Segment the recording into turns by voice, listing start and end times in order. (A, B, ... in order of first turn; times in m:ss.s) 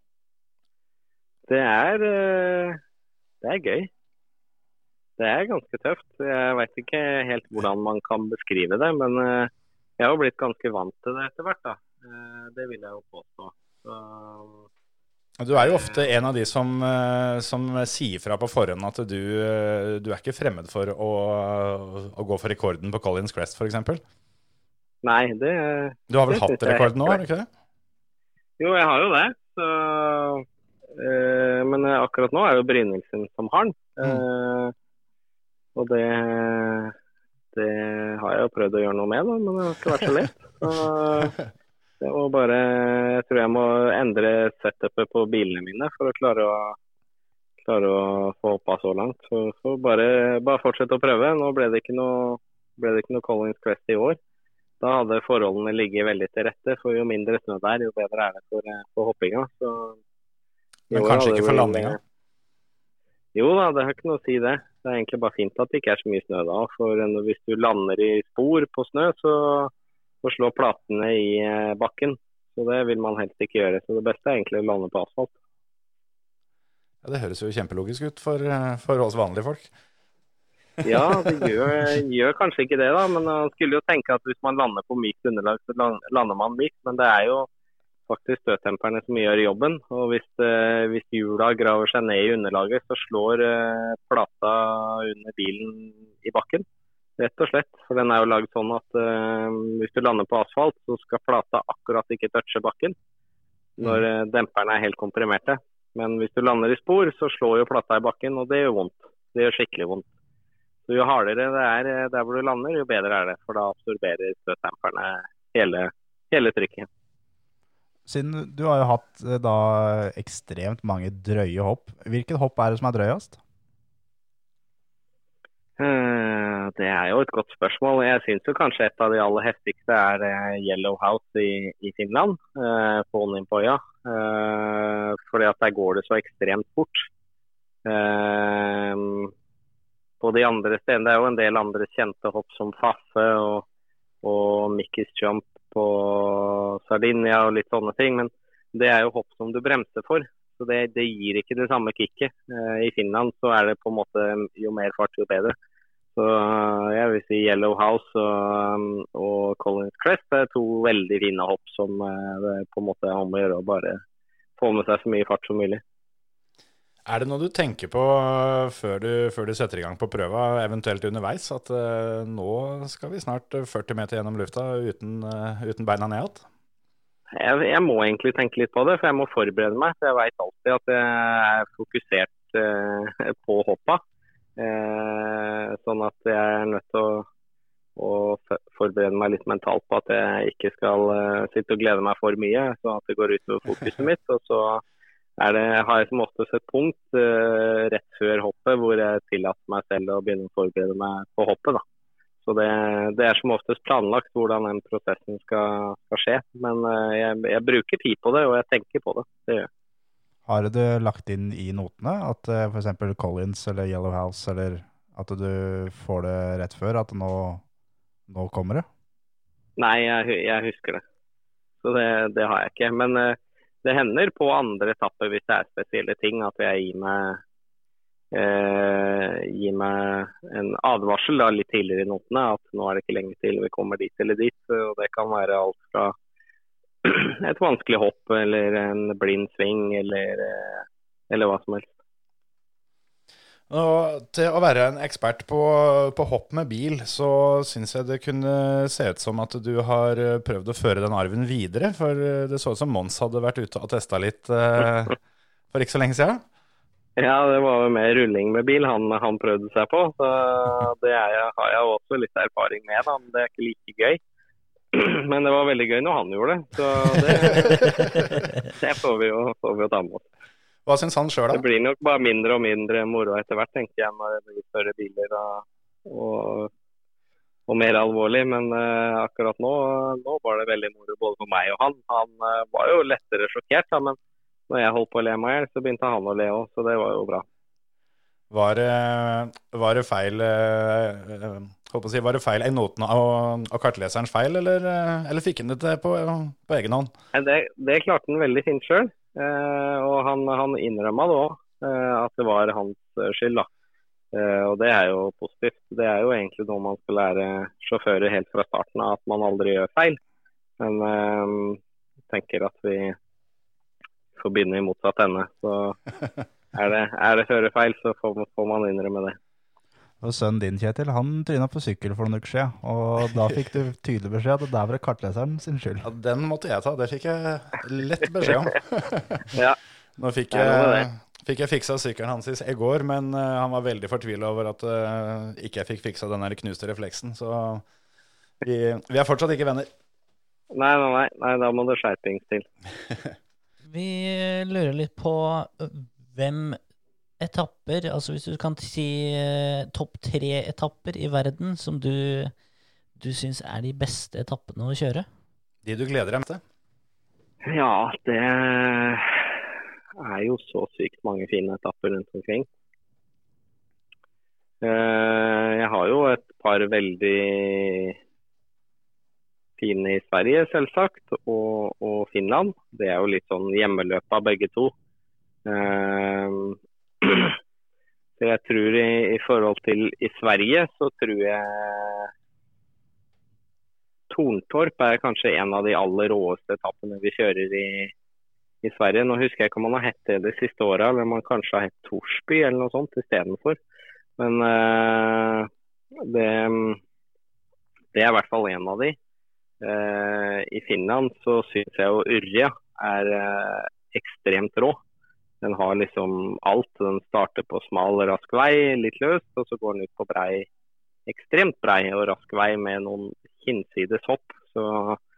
0:01.5-0:02.8 A
0:03.4-0:03.9 A
0:05.2-0:14.6 A
0:15.4-0:24.0 B
0:15.6-0:16.0 A
0:25.0-0:27.2 A
0:26.1-0:27.5 B
0:28.6-0:30.4 A
0:31.0-0:34.7 A
0:35.8-0:37.0 A
0:37.5-0:41.3 A
0:42.0-0:46.8 A
0:47.6-0:54.2 A
0:54.8-1:00.0 A
1:00.9-1:02.0 B
1:00.9-1:02.0 A
1:03.4-1:09.7 A
1:10.2-1:15.3 A
1:17.0-1:19.7 B
1:20.8-1:27.5 A
1:28.1-1:36.6 A
1:37.2-1:43.0 A
1:43.8-1:44.0 B
1:43.8-1:50.1 A
1:50.9-1:56.9 A
1:58.1-2:03.4 C
2:05.8-2:17.1 A
2:17.8-2:19.3 A
2:20.2-2:23.6 A
2:24.2-2:35.6 A
2:36.2-2:44.0 A
2:44.6-2:45.8 A
2:47.1-2:56.4 B
2:57.3-3:04.0 A
3:04.6-3:07.3 A
3:08.0-3:14.8 A
3:15.4-3:21.8 A
3:22.4-3:29.7 A
3:30.5-3:37.6 C
3:38.3-3:38.9 C
3:39.8-3:41.0 A
3:41.8-3:47.4 A
3:48.3-3:56.1 A
3:57.0-4:01.9 A
4:03.7-4:15.2 B
4:15.7-4:16.4 B
4:17.2-4:24.2 A
4:24.9-4:30.3 A
4:30.9-4:31.6 B
4:31.5-4:36.7 A
4:37.7-4:44.2 A
4:44.7-4:47.4 A
4:48.5-4:57.1 B
4:57.3-5:03.7 A
5:04.3-5:10.2 A
5:10.8-5:13.2 A
5:14.4-5:16.0 A
5:16.7-5:19.4 A
5:20.2-5:26.1 C
5:26.0-5:29.5 B
5:30.2-5:37.8 B
5:30.5-5:31.1 A
5:38.6-5:39.9 B
5:40.7-5:42.7 A
5:43.9-5:46.8 D
5:47.4-5:52.5 D
5:53.2-5:55.3 D
5:55.8-5:56.6 B
5:57.7-5:59.6 A
6:00.2-6:02.7 A
6:04.8-6:08.2 A
6:09.8-6:14.9 A
6:15.7-6:17.6 A
6:18.4-6:22.3 A
6:24.3-6:28.1 A
6:28.8-6:33.8 A
6:34.4-6:37.0 A
6:38.1-6:39.2 A
6:39.8-6:45.0 A
6:45.6-6:50.7 A
6:51.3-6:55.2 A